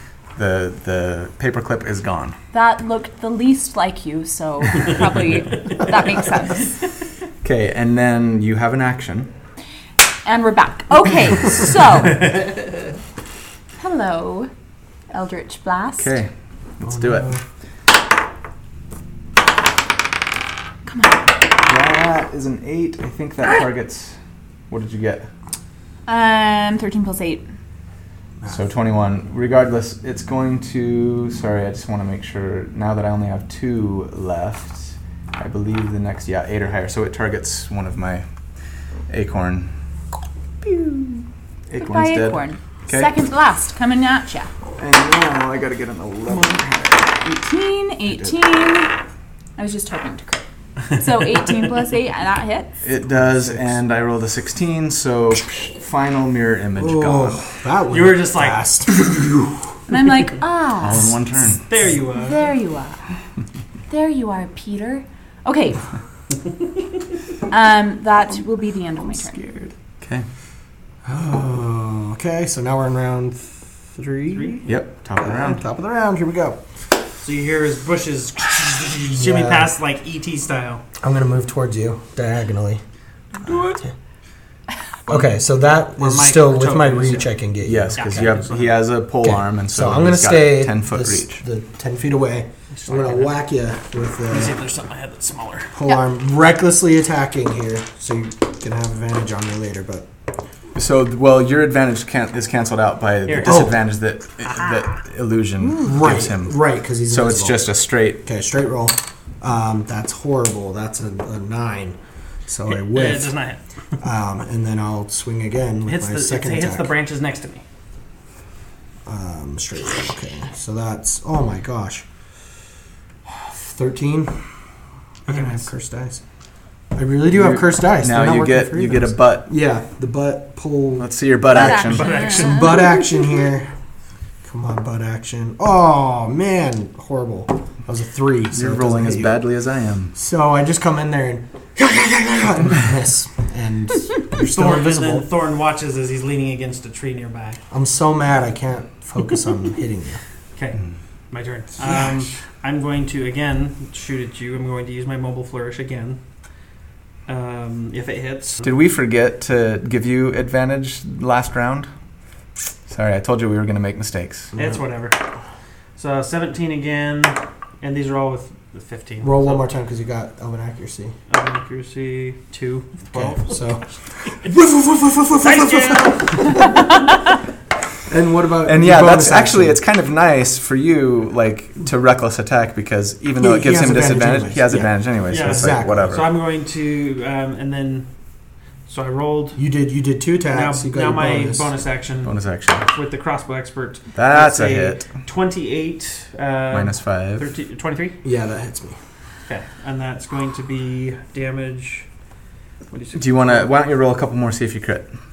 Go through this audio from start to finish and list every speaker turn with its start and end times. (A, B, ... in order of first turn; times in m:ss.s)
0:00.4-0:02.4 A
0:02.5-0:06.7 B
0:07.4-0:09.3 A
0:10.2-0:12.3 B
0:13.8-0:14.5 B
0:15.1-0:16.1 B
0:16.0-0:17.3 A
0:16.8-0:17.4 C
0:20.9-0:21.3 B
0:21.6-0:24.2 A
0:24.7-0:25.3 A
0:26.1-0:27.4 B
0:28.5-0:38.2 A
0:39.1-0:39.7 A
0:40.6-0:41.2 A
0:41.7-0:43.1 A
0:41.8-0:44.5 B
0:44.8-0:47.2 A
0:47.2-0:48.9 B
0:49.6-0:52.7 B
0:52.8-0:57.6 A
0:53.2-0:53.8 C
0:56.8-0:59.5 C
0:57.9-0:58.6 D
0:59.9-1:01.2 B
1:00.8-1:01.6 A
1:01.7-1:02.5 D
1:02.2-1:03.0 B
1:03.9-1:05.9 B
1:07.5-1:09.4 B
1:09.2-1:09.7 C
1:10.0-1:10.3 A
1:11.0-1:16.6 C
1:14.3-1:14.6 D
1:14.7-1:15.6 A
1:17.2-1:20.8 D
1:19.1-1:19.7 C
1:21.0-1:22.8 C
1:23.4-1:23.8 D
1:23.5-1:23.9 C
1:25.1-1:28.4 C
1:26.0-1:27.3 D
1:27.6-1:31.4 A
1:28.0-1:28.8 D
1:29.2-1:34.6 C
1:32.7-1:33.4 D
1:34.3-1:35.7 D
1:35.7-1:40.1 C
1:40.8-1:48.2 A
1:43.3-1:43.7 D
1:43.4-1:43.8 C
1:45.8-1:47.7 C
1:48.2-1:53.4 C
1:52.7-1:53.6 D
1:54.0-1:56.9 C
1:55.9-1:57.6 D
1:59.1-2:02.0 C
2:03.3-2:04.5 C
2:05.3-2:05.7 D
2:05.3-2:06.2 C
2:06.9-2:13.7 C
2:07.3-2:09.5 A
2:11.0-2:12.2 A
2:11.6-2:13.0 B
2:11.8-2:12.8 D
2:14.4-2:19.4 C
2:18.5-2:20.1 A
2:20.2-2:25.3 C
2:24.4-2:27.6 D
2:27.7-2:30.2 C
2:30.6-2:36.2 D
2:31.8-2:32.2 C
2:37.3-2:38.7 D
2:38.6-2:41.9 A
2:42.9-2:44.5 A
2:44.6-2:45.2 D
2:46.0-2:49.6 D
2:49.2-2:51.2 C
2:51.3-2:53.7 D
2:53.1-2:57.0 C
2:55.4-2:56.7 D
2:58.1-2:59.8 C
2:58.6-3:06.3 A
3:03.4-3:06.2 C
3:05.3-3:08.1 D
3:08.9-3:09.6 D
3:09.6-3:11.7 C
3:10.5-3:18.2 D
3:12.2-3:12.9 A
3:14.2-3:15.1 A
3:16.7-3:17.5 A
3:18.2-3:19.0 C
3:19.5-3:22.1 D
3:22.9-3:23.7 D
3:23.2-3:25.1 A